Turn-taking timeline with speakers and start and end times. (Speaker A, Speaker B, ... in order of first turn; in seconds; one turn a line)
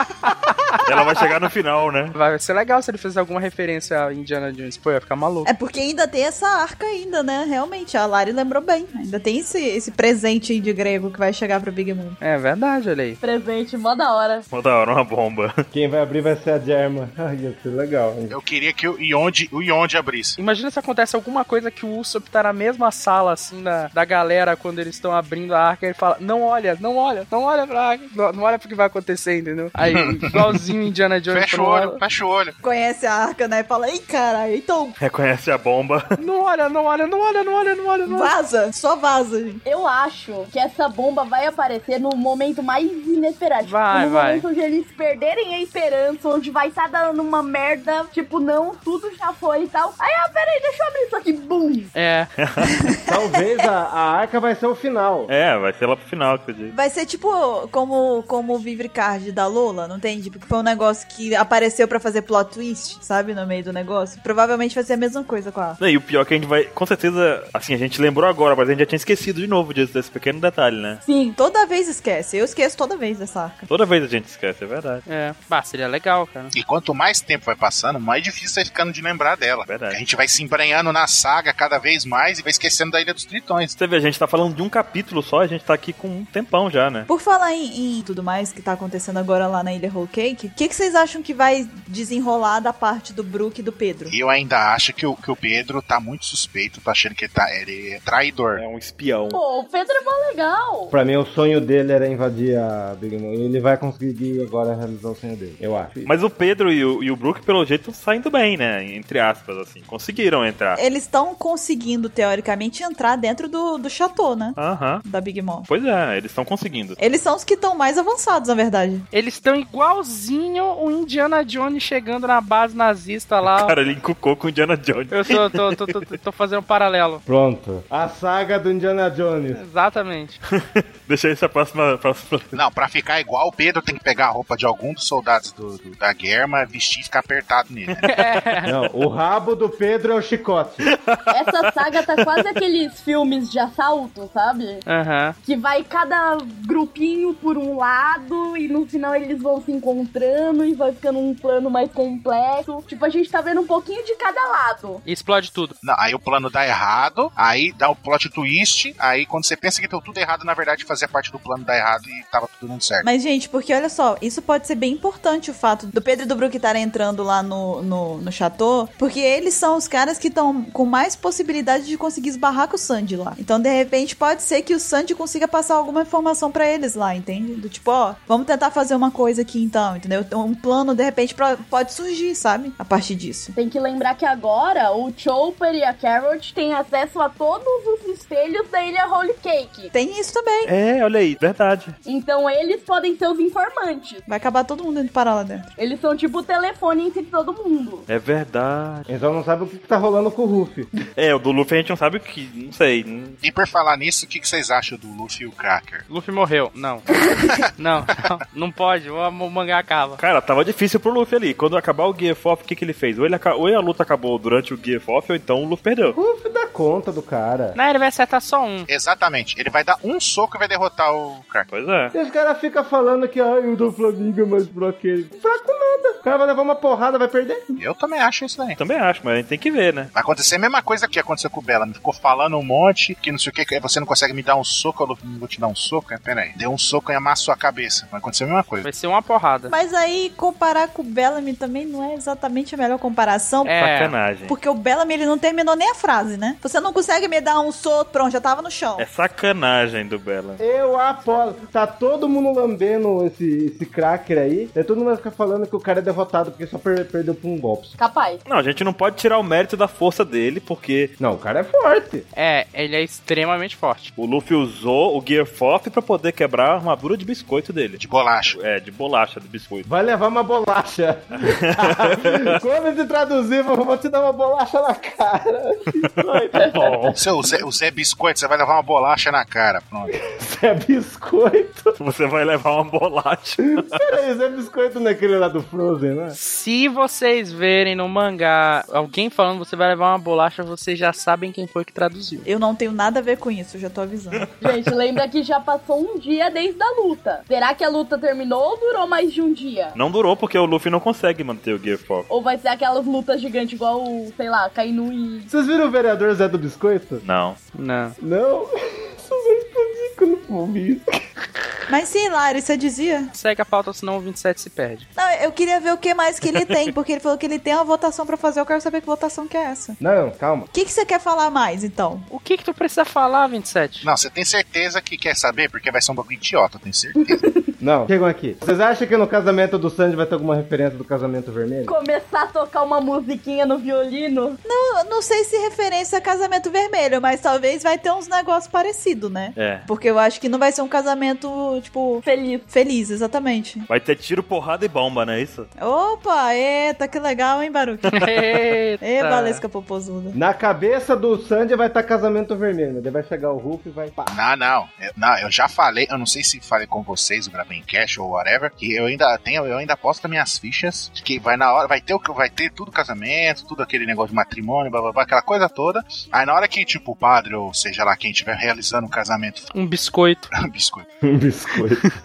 Speaker A: 0.8-2.1
Speaker B: 2.1-5.5
Speaker C: 5.5-12.2
Speaker B: 12.2-13.2
Speaker D: 13.2-14.5
Speaker A: 14.5-15.5
Speaker E: 15.7-18.4
Speaker F: 18.3-20.4
Speaker B: 20.4-32.0
Speaker F: 29.9-30.4
Speaker F: 31.3-32.6
Speaker C: 32.6-35.0
Speaker A: 35.0-36.1
Speaker B: 36.2-38.3
Speaker C: 38.0-39.6
Speaker D: 39.6-51.9
Speaker B: 43.6-44.5
Speaker B: 52.0-52.3
Speaker A: 52.4-53.0
Speaker E: 53.1-55.3
Speaker A: 55.3-56.7
Speaker C: 56.7-65.8
Speaker A: 65.8-71.0
Speaker C: 71.0-73.7
Speaker A: 73.7-75.0
Speaker B: 75.1-76.5
Speaker F: 76.5-83.7
Speaker A: 79.7-80.0
Speaker A: 83.8-87.1
Speaker C: 87.1-94.2
Speaker F: 94.1-98.6
Speaker A: 98.5-99.4
Speaker D: 99.3-100.9
Speaker E: 100.9-106.1
Speaker A: 106.0-110.8
Speaker C: 110.8-115.7
Speaker A: 114.6-115.0
Speaker A: 115.7-117.0
Speaker C: 117.0-119.1
Speaker B: 119.1-123.8
Speaker A: 123.5-125.9
Speaker B: 125.1-127.2
Speaker E: 127.3-129.6
Speaker B: 129.5-130.4
Speaker A: 130.5-132.6
Speaker F: 132.5-138.2
Speaker B: 138.1-138.7
Speaker E: 138.7-140.8
Speaker A: 140.8-142.4
Speaker D: 141.3-144.8
Speaker B: 144.9-145.4
Speaker D: 145.4-155.0
Speaker B: 155.1-155.8
Speaker F: 155.8-163.1
Speaker C: 163.0-183.5
Speaker D: 183.6-189.9
Speaker C: 189.9-190.7
Speaker A: 190.7-192.0
Speaker D: 192.1-194.2
Speaker C: 194.3-195.7
Speaker D: 195.8-198.1
Speaker A: 198.1-199.1
Speaker E: 199.1-200.9
Speaker A: 201.2-203.4
Speaker F: 203.4-206.1
Speaker B: 206.1-207.1
Speaker B: 207.8-210.2
Speaker A: 210.2-216.2
Speaker E: 216.1-217.8
Speaker B: 217.8-218.9
Speaker F: 218.9-221.7
Speaker A: 221.7-222.1
Speaker E: 222.1-227.7
Speaker F: 227.8-228.8
Speaker A: 228.8-230.1
Speaker F: 230.2-238.9
Speaker B: 238.8-239.7
Speaker C: 239.7-243.8
Speaker B: 243.7-244.1
Speaker A: 243.8-244.6
Speaker C: 244.5-249.1
Speaker A: 249.0-250.6
Speaker E: 250.6-258.0
Speaker D: 258.0-258.4
Speaker A: 258.5-261.1
Speaker E: 261.2-262.3
Speaker B: 262.4-264.1
Speaker A: 264.2-268.0
Speaker F: 268.0-268.6
Speaker A: 268.5-269.9
Speaker E: 269.9-277.2
Speaker A: 271.7-272.4
Speaker A: 276.7-277.2
Speaker F: 277.1-280.1
Speaker E: 280.1-281.9
Speaker A: 282.0-283.9
Speaker E: 283.8-286.4
Speaker B: 286.4-292.5
Speaker C: 292.4-294.4
Speaker A: 294.4-294.9
Speaker D: 294.6-300.0
Speaker A: 299.9-302.3
Speaker D: 302.3-305.5
Speaker E: 305.5-307.2
Speaker A: 307.2-307.6
Speaker B: 307.8-308.2
Speaker E: 308.2-311.1
Speaker C: 311.9-313.3
Speaker B: 313.3-315.1
Speaker C: 315.2-320.0
Speaker E: 320.0-320.7
Speaker C: 320.7-322.3
Speaker B: 322.3-324.1
Speaker F: 324.0-327.4
Speaker D: 327.2-327.7
Speaker E: 327.8-331.9
Speaker D: 331.9-334.6
Speaker C: 334.6-343.9
Speaker A: 339.6-339.9
Speaker D: 342.2-342.7
Speaker A: 343.9-345.7
Speaker C: 345.8-348.3
Speaker B: 348.1-349.6
Speaker C: 349.0-350.4
Speaker E: 350.3-354.3
Speaker F: 354.3-369.7
Speaker B: 369.7-370.5
Speaker F: 370.6-371.1
Speaker E: 371.2-372.0